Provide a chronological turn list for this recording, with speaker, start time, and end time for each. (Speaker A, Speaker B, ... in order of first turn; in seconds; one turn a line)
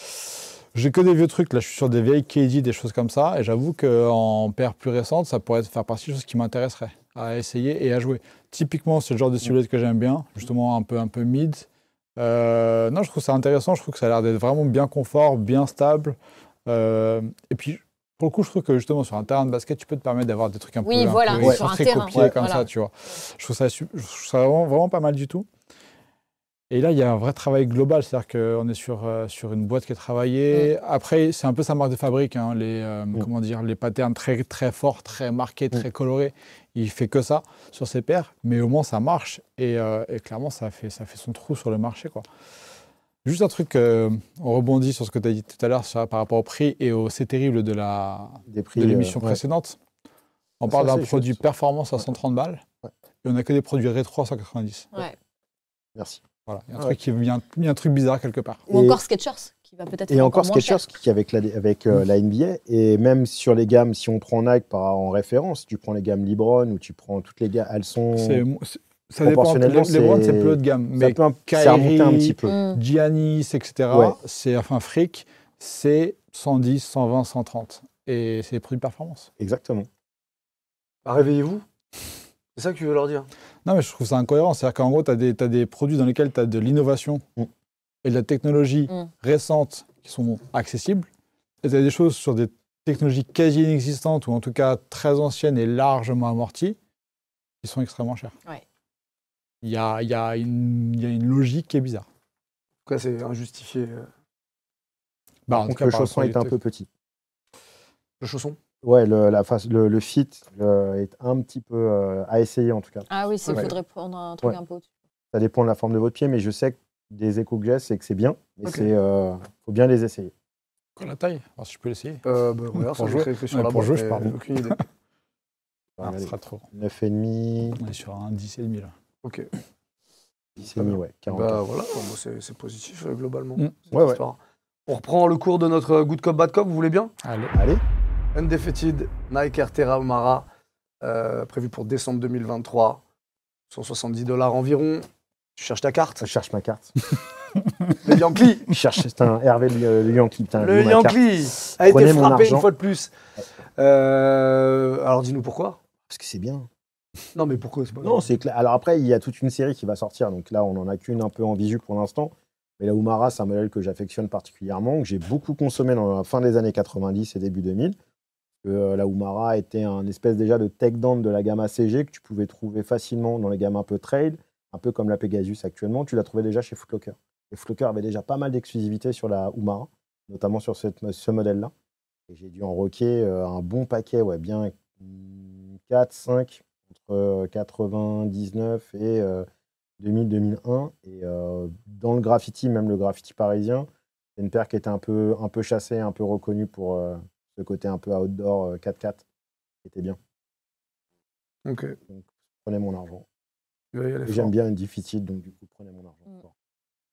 Speaker A: 0.7-25.5
Speaker B: 20.8-22.7
Speaker C: 21.4-22.4
Speaker A: 26.7-42.2
Speaker A: 43.2-49.8
Speaker C: 48.5-49.4
Speaker A: 50.6-52.6
Speaker C: 50.7-51.4
Speaker A: 53.2-55.0
Speaker C: 56.0-56.2
Speaker A: 56.5-58.6
Speaker B: 58.7-60.8
Speaker C: 58.7-59.0
Speaker C: 60.1-68.4
Speaker A: 68.2-79.3
Speaker C: 69.2-72.6
Speaker B: 72.5-72.8
Speaker C: 73.9-74.2
Speaker C: 79.4-79.9
Speaker D: 81.0-81.7
Speaker D: 82.5-83.3
Speaker A: 83.7-87.2
Speaker A: 88.0-91.1
Speaker A: 91.6-96.8
Speaker A: 97.6-98.3
Speaker A: 99.6-102.0
Speaker D: 102.9-104.1
Speaker A: 105.5-106.5
Speaker C: 105.5-106.9
Speaker D: 108.2-108.6
Speaker C: 108.8-113.7
Speaker B: 113.1-114.9
Speaker D: 113.5-113.7
Speaker C: 115.3-120.3
Speaker A: 121.0-122.2
Speaker D: 122.2-124.8
Speaker A: 122.8-124.8
Speaker C: 126.0-127.8
Speaker A: 126.0-126.7
Speaker A: 127.8-128.9
Speaker D: 129.2-129.5
Speaker C: 130.6-131.6
Speaker D: 130.8-137.1
Speaker C: 133.9-134.2
Speaker A: 137.2-137.5
Speaker C: 137.5-137.8
Speaker D: 138.3-140.5
Speaker D: 141.0-143.0
Speaker D: 143.7-146.3
Speaker C: 146.2-146.9
Speaker D: 148.0-148.7
Speaker C: 148.7-152.7
Speaker D: 150.6-153.1
Speaker D: 153.8-155.8
Speaker C: 156.1-156.7
Speaker D: 157.3-158.3
Speaker C: 158.0-168.0
Speaker C: 168.6-181.7
Speaker C: 182.3-189.5
Speaker C: 190.0-199.2
Speaker C: 199.8-200.2
Speaker D: 201.7-202.0
Speaker C: 202.1-203.2
Speaker D: 203.9-204.5
Speaker C: 204.3-206.5